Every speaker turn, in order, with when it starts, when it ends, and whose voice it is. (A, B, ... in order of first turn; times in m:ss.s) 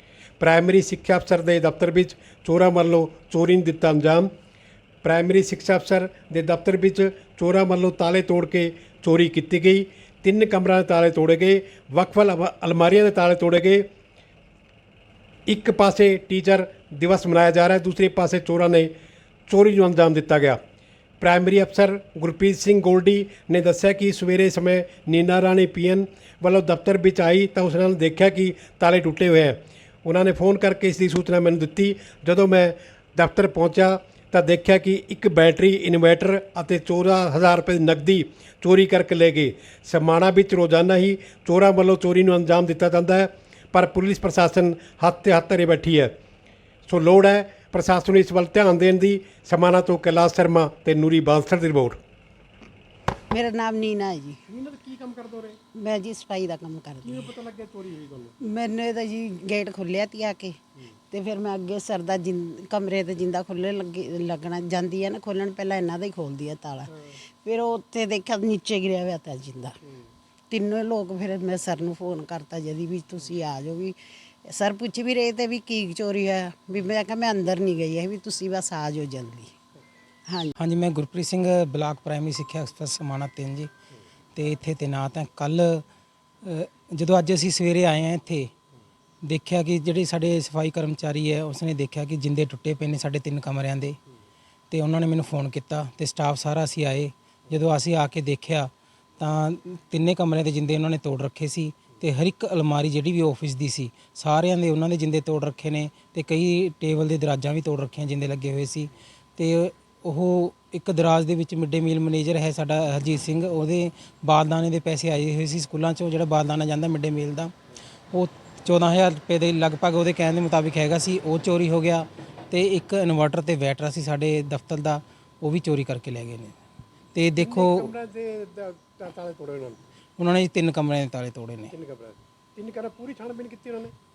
0:00.4-0:04.3 A
0:05.0-0:13.9 A
0:15.5-0:18.9 A
0:19.5-0:20.6 A
0:21.2-0:46.1 A
0:46.9-0:52.0 A
0:53.3-0:54.4 B
0:54.5-0:55.6 A
0:55.7-0:57.3 B
0:57.0-0:58.3 A
0:58.4-1:00.6 B
1:01.1-1:09.8 B
1:10.5-1:19.5 B
1:20.3-1:20.5 B
1:20.6-1:23.7 C
1:24.3-1:25.8 C
1:26.4-1:28.5 C
1:29.2-1:34.0 C
1:34.7-1:57.5 C
1:58.1-2:06.5 C
2:07.1-2:07.9 C
2:07.4-2:09.8 A
2:10.2-2:11.7 C
2:11.7-2:13.9 A